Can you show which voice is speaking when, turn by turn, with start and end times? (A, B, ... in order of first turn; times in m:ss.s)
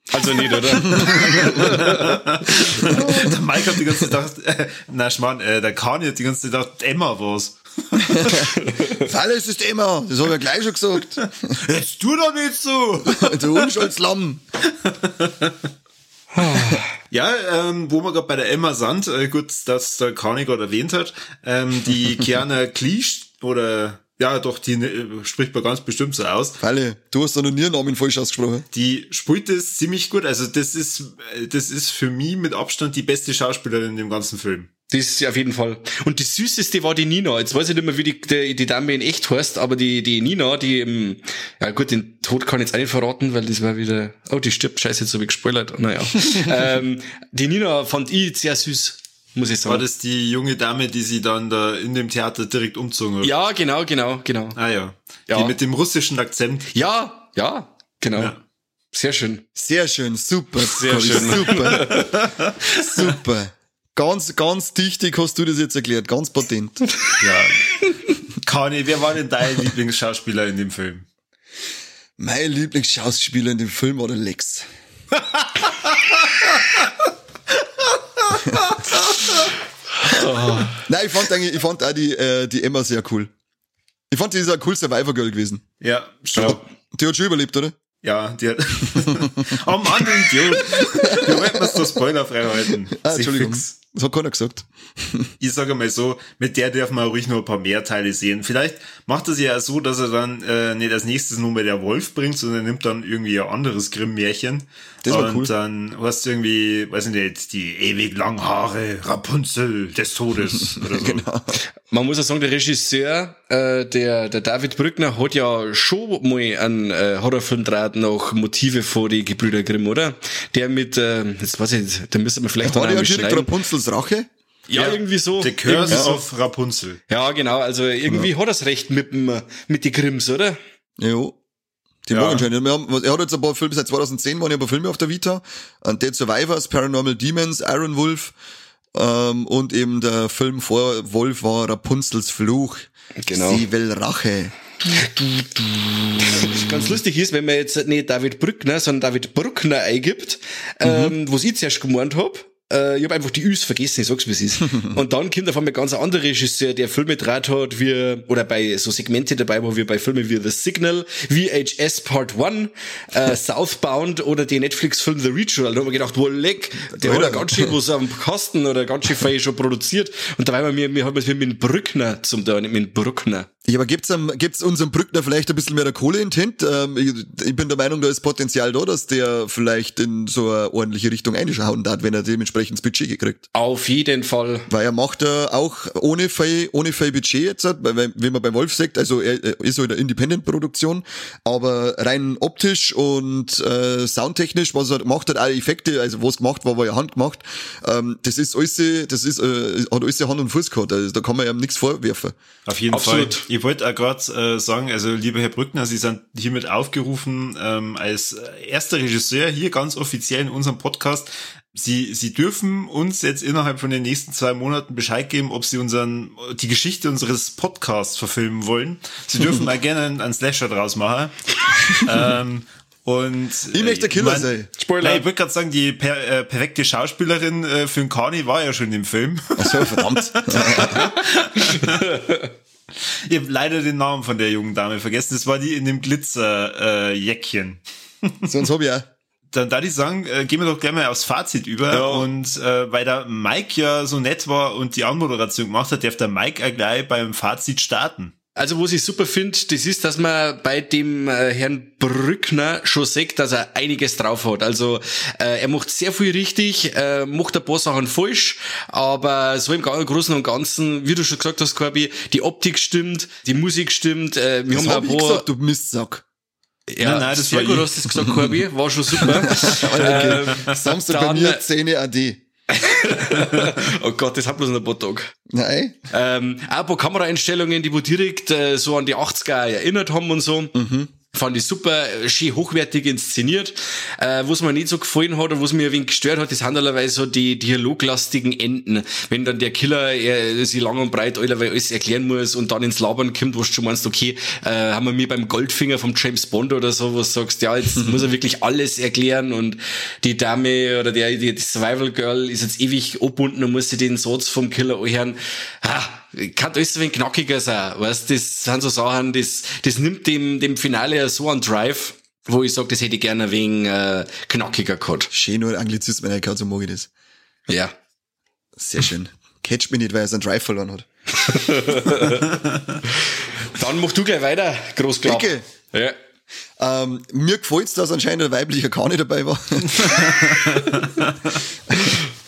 0:00.1-0:02.2 A
0:00.7-0:02.0 B
0:01.1-0:08.6 C
0:02.8-0:04.1 B
0:08.0-0:11.5 B
0:11.2-0:13.8 C
0:13.2-0:14.4 B
0:14.8-0:15.6 C
0:16.4-0:16.9 A
0:16.4-0:16.8 B
0:17.1-0:26.6 C
0:26.6-0:28.7 B
0:28.7-0:34.7 C
0:34.9-0:49.8 A
0:49.6-0:53.3 C
0:53.2-0:54.6 A
0:54.6-0:56.7 C
0:55.3-0:55.6 A
0:56.7-0:58.4 A
0:58.9-0:59.4 A
0:59.6-1:02.1 B
1:00.6-1:02.1 A
1:01.8-1:03.1 C
1:02.7-1:06.9 B
1:07.2-1:07.8 C
1:08.3-1:11.0 C
1:12.2-1:14.7 B
1:15.4-1:16.9 C
1:17.9-1:19.5 C
1:20.0-1:20.8 A
1:20.8-1:23.3 B
1:24.1-1:25.6 B
1:25.8-1:26.6 C
1:26.4-1:27.8 B
1:28.0-1:33.7 C
1:30.6-1:32.0 B
1:33.0-1:35.3 B
1:35.4-1:51.3 C
1:45.0-1:45.5 B
1:50.8-1:51.6 B
1:51.9-2:03.5 A
2:02.6-2:04.3 B
2:04.7-2:06.1 A
2:04.7-2:07.0 C
2:05.9-2:06.2 B
2:07.1-2:10.6 A
2:11.0-2:11.4 B
2:12.1-2:18.3 B
2:12.1-2:12.5 C
2:18.9-2:24.5 B
2:23.2-2:23.6 A
2:25.0-2:25.4 A
2:26.1-2:53.5 A
2:26.2-2:26.6 B
2:30.8-2:31.2 B
2:46.9-2:47.7 B
2:53.7-3:03.4 B
3:03.5-3:04.7 A
3:04.7-3:22.4 B
3:22.7-3:52.2 C
3:22.9-3:23.4 A
3:43.7-3:44.7 B
3:44.8-3:45.2 A
3:49.6-3:51.1 B
3:51.7-3:52.5 A
3:53.2-3:58.5 C
3:58.5-3:59.1 B
3:59.5-4:08.3 C
4:01.9-4:02.3 A
4:08.6-4:25.4 A
4:24.7-4:26.2 B
4:26.9-4:31.6 A
4:27.0-4:28.0 C
4:28.2-4:28.5 B
4:29.2-4:32.4 B
4:32.7-4:35.3 A
4:35.5-4:36.0 B
4:36.1-4:40.7 A
4:40.7-4:41.1 B
4:41.3-5:15.3 A
5:15.3-5:17.1 B
5:17.7-5:17.9 A
5:18.8-5:21.1 B
5:21.4-5:22.5 A
5:23.3-5:26.2 A
5:25.2-5:25.6 B
5:26.8-5:30.8 B
5:30.0-5:31.6 C
5:31.9-5:32.2 B